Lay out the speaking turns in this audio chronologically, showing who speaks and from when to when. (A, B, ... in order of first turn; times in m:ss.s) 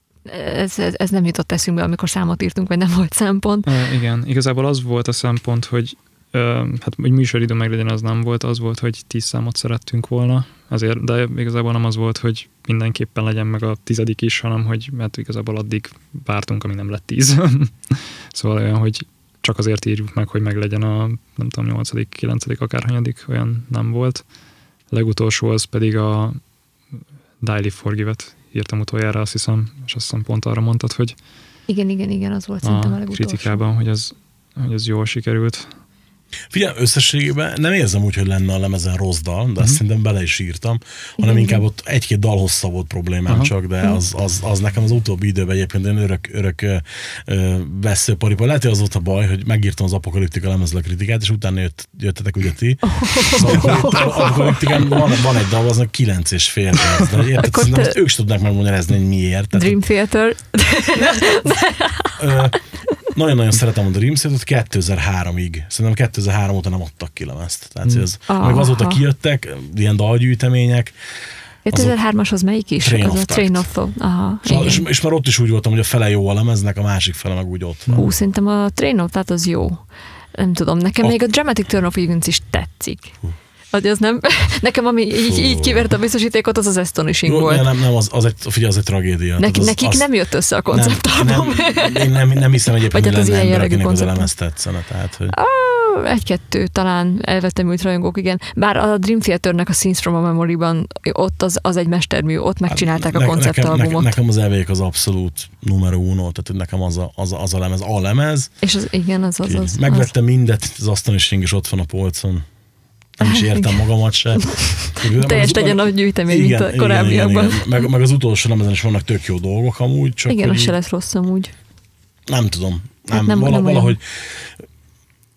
0:00.2-0:03.7 A
0:03.6-0:24.2 B
0:24.9-0:26.4 B
0:27.4-0:31.2 B
0:31.7-0:33.6 A
0:32.6-0:35.7 B
0:36.5-0:59.8 C
0:41.2-0:41.6 A
0:52.8-0:54.6 A
0:57.4-0:58.0 A
0:59.5-1:02.2 A
1:02.2-1:10.9 C
1:08.3-1:09.0 A
1:11.6-1:14.8 A
1:11.7-1:12.0 C
1:12.8-1:13.7 C
1:14.4-1:18.0 C
1:17.9-1:23.2 A
1:23.7-1:27.6 A
1:25.2-1:25.9 C
1:27.2-1:30.1 C
1:29.4-1:32.1 A
1:30.7-1:35.4 C
1:32.9-1:34.3 A
1:35.3-1:44.1 A
1:42.7-1:48.5 C
1:48.6-1:50.1 A
1:49.4-1:52.4 C
1:53.2-2:00.7 C
1:53.2-1:57.7 A
2:00.3-2:01.5 A
2:02.3-2:04.5 C
2:03.1-2:04.0 A